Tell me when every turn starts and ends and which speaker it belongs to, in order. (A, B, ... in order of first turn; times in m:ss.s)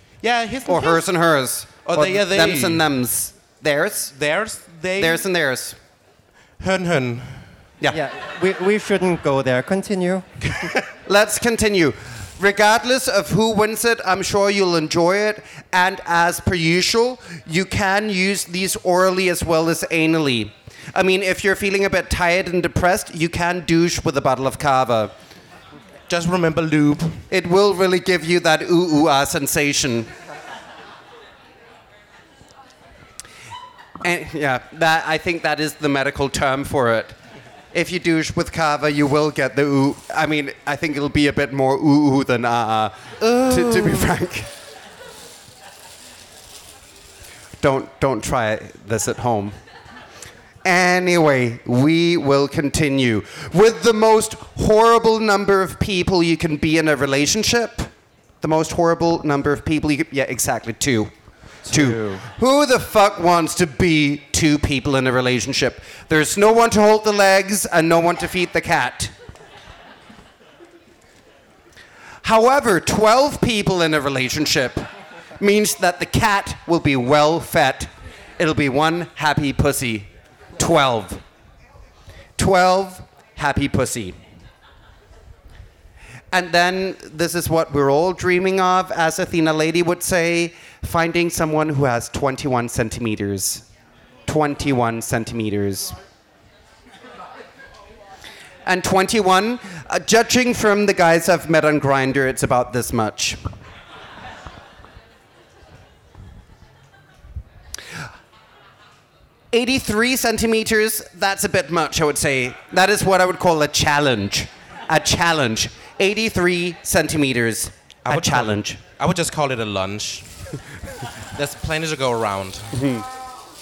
0:00.2-0:01.0 A
0:00.6-0:04.1 B
0:01.8-0:02.8 A
0:04.1-0:05.2 A
0:05.0-0:05.8 B
0:06.6-0:07.5 A
0:07.9-0:10.5 C
0:11.0-0:25.1 B
0:26.1-0:27.2 A
0:27.3-0:30.1 B
0:34.0-0:37.2 B
0:37.7-0:44.5 B
0:43.2-0:44.1 A
0:47.6-0:49.6 B
0:50.6-0:57.9 B
0:58.4-1:01.1 B
1:01.6-1:02.2 C
1:01.7-1:09.1 B
1:12.2-1:21.2 B
1:22.4-1:24.2 B
1:26.3-1:33.7 B
1:34.3-1:36.0 B
1:38.6-1:43.4 B
1:49.5-1:58.8 B
1:58.1-2:00.3 A
2:01.3-2:02.7 A
2:02.7-2:03.0 B